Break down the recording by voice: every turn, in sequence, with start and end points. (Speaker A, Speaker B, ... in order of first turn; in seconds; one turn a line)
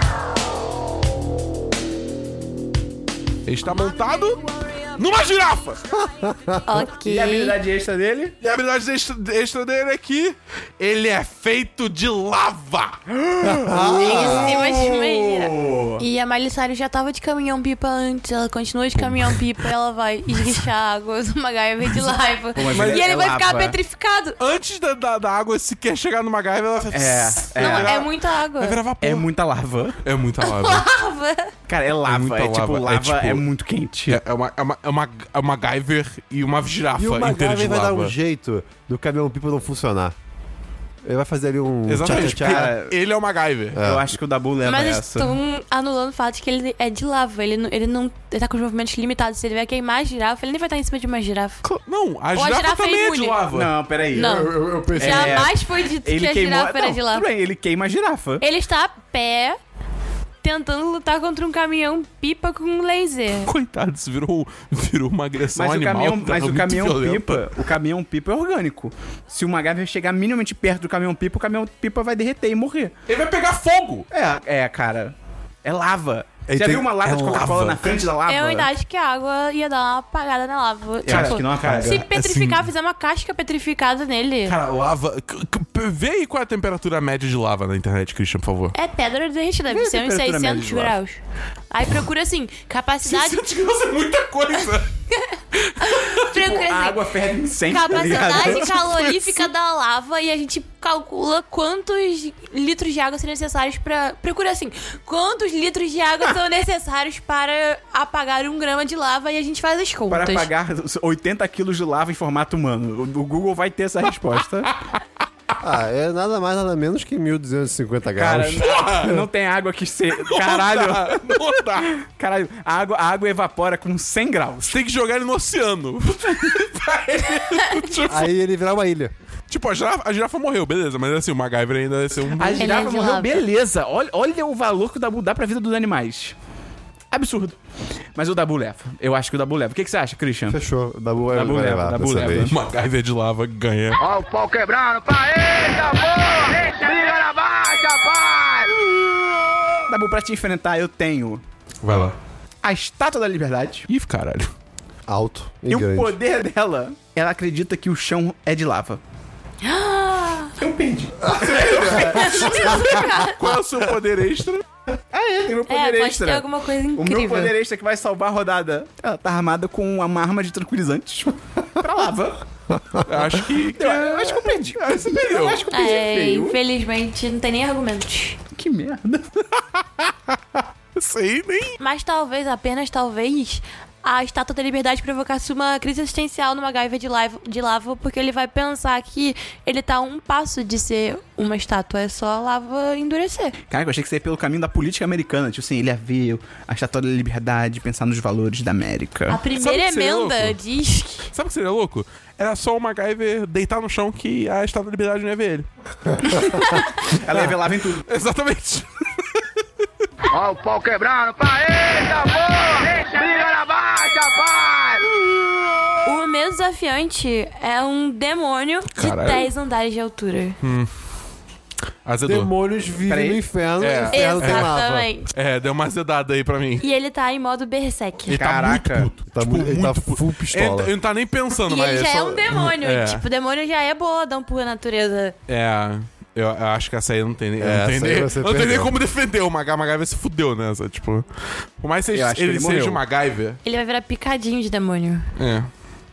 Speaker A: 3.5-5.8
Speaker B: 5.9-6.8
Speaker C: 6.6-7.5
Speaker D: 7.0-8.4
Speaker A: 8.4-13.0
Speaker D: 13.1-16.1
Speaker B: 13.4-14.7
Speaker C: 13.8-24.4
Speaker D: 22.6-23.8
Speaker A: 22.7-23.1
Speaker A: 24.4-29.3
Speaker D: 26.9-28.0
Speaker C: 27.6-28.8
Speaker D: 29.0-30.0
Speaker A: 30.0-30.9
Speaker C: 30.4-31.5
Speaker D: 31.7-34.2
Speaker A: 32.0-33.5
Speaker A: 34.1-38.1
Speaker B: 37.0-40.1
Speaker B: 41.0-42.7
Speaker A: 41.9-43.8
Speaker D: 42.0-42.9
Speaker B: 43.8-44.1
Speaker D: 43.8-45.3
Speaker C: 44.6-51.6
Speaker A: 51.6-53.7
Speaker C: 52.4-53.4
Speaker D: 53.5-58.4
Speaker C: 54.1-57.3
Speaker B: 54.1-55.5
Speaker C: 58.4-59.6
Speaker C: 60.4-63.5
Speaker A: 63.5-67.5
Speaker D: 65.5-72.9
Speaker A: 73.1-74.1
Speaker D: 74.1-78.7
Speaker B: 76.5-77.5
Speaker A: 77.0-78.1
Speaker C: 78.3-84.6
Speaker D: 81.0-82.1
Speaker A: 81.1-82.7
Speaker A: 84.5-88.8
Speaker C: 88.7-91.2
Speaker D: 89.7-91.0
Speaker C: 91.7-93.4
Speaker A: 93.0-94.9
Speaker C: 95.1-97.0
Speaker A: 95.7-96.0
Speaker D: 96.3-99.4
Speaker C: 97.7-110.5
Speaker A: 98.1-98.7
Speaker D: 110.1-114.7
Speaker B: 115.6-119.2
Speaker D: 118.2-124.8
Speaker A: 118.6-119.2
Speaker A: 120.1-121.9
Speaker A: 124.6-128.3
Speaker B: 128.1-129.1
Speaker A: 129.5-132.7
Speaker D: 132.3-136.4
Speaker C: 132.6-133.4
Speaker D: 137.1-137.6
Speaker D: 138.2-140.6
Speaker B: 140.5-142.5
Speaker D: 141.3-142.6
Speaker A: 142.5-144.0
Speaker E: 144.0-148.7
Speaker D: 149.9-151.4
Speaker A: 151.8-152.2
Speaker D: 152.6-153.9
Speaker A: 153.9-154.5
Speaker B: 155.1-156.2
Speaker D: 155.7-159.0
Speaker C: 159.6-160.6
Speaker D: 160.6-162.7
Speaker B: 161.2-163.0
Speaker A: 161.4-164.6
Speaker C: 162.0-163.4
Speaker D: 165.1-172.4
Speaker C: 165.7-167.5
Speaker B: 172.7-173.4
Speaker A: 173.0-175.7
Speaker D: 173.7-176.6
Speaker C: 175.7-178.4
Speaker D: 178.5-179.6
Speaker A: 181.0-181.8
Speaker C: 181.8-193.6
Speaker D: 193.7-199.4
Speaker C: 199.3-201.3
Speaker A: 199.5-200.6
Speaker A: 201.3-205.7
Speaker A: 206.2-207.4
Speaker D: 206.3-208.1
Speaker A: 208.1-209.4
Speaker E: 210.3-215.1
Speaker C: 216.1-220.6
Speaker A: 218.9-219.5
Speaker A: 220.6-220.9
Speaker A: 222.1-222.5
Speaker B: 222.2-225.1
Speaker D: 223.1-223.4
Speaker A: 223.8-224.8
Speaker C: 224.1-225.3
Speaker A: 225.3-226.8
Speaker C: 226.8-228.4
Speaker A: 228.3-233.2
Speaker D: 228.3-229.1
Speaker B: 229.3-230.9
Speaker C: 231.6-235.3
Speaker A: 235.5-243.6
Speaker B: 237.6-239.0
Speaker D: 242.1-243.0
Speaker C: 243.7-245.3
Speaker A: 245.4-245.7